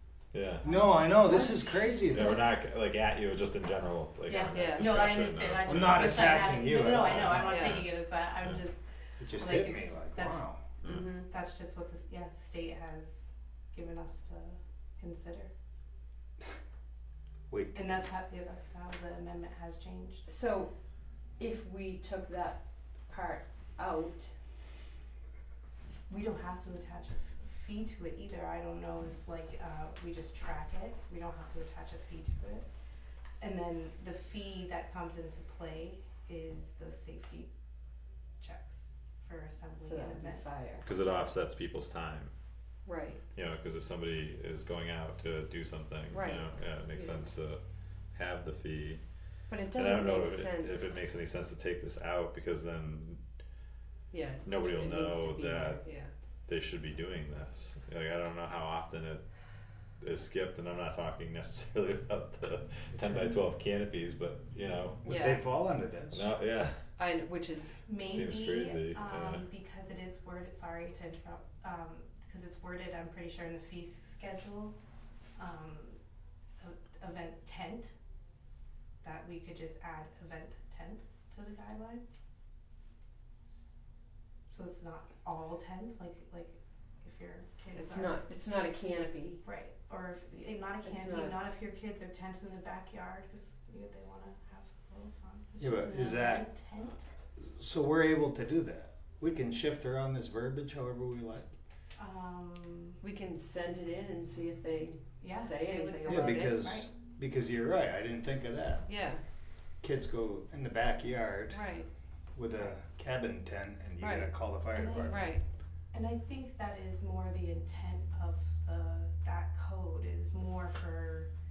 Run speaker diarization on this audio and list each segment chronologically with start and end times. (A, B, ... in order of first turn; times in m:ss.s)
0:00.3-0:00.7 A
0:00.6-0:01.6 B
0:00.6-0:02.4 C
0:01.2-0:02.4 D
0:02.0-0:06.4 A
0:04.3-0:15.5 B
0:04.5-0:04.9 D
0:05.7-0:07.8 C
0:07.1-0:07.9 A
0:07.4-0:07.8 D
0:09.2-0:10.6 C
0:10.8-0:11.1 A
0:10.8-0:11.3 D
0:17.5-0:17.9 C
0:17.7-0:20.2 B
0:20.3-0:20.7 D
0:21.4-0:24.3 D
0:26.1-0:32.7 B
0:33.4-0:37.5 B
0:38.4-0:40.5 B
0:39.8-0:40.9 D
0:40.8-0:42.3 A
0:42.8-0:43.2 D
0:43.4-0:47.6 A
0:46.1-0:47.3 D
0:48.1-0:49.0 A
0:49.5-0:51.0 D
0:49.7-0:53.2 A
0:54.1-0:56.1 D
0:54.4-0:55.8 A
0:56.5-0:59.2 A
1:00.0-1:05.0 A
1:05.0-1:06.3 C
1:05.0-1:05.4 D
1:06.1-1:06.8 A
1:07.0-1:07.8 D
1:07.9-1:14.8 B
1:08.0-1:09.4 A
1:15.4-1:16.0 B
1:16.6-1:17.9 B
1:19.0-1:22.0 B
1:24.5-1:28.2 B
1:27.7-1:29.4 D
1:29.4-1:37.1 B
1:30.8-1:31.4 D
1:35.6-1:36.5 C
1:37.4-1:41.5 C
1:42.0-1:43.0 B
1:43.0-1:46.6 D
1:45.2-1:46.9 B
1:46.1-1:48.9 C
1:48.9-1:49.2 D
1:49.8-1:51.6 C
1:51.5-1:51.9 D
1:52.3-1:55.2 C
1:54.0-1:54.3 D
1:54.7-1:55.2 B
1:55.0-1:55.4 D
1:55.9-2:01.3 B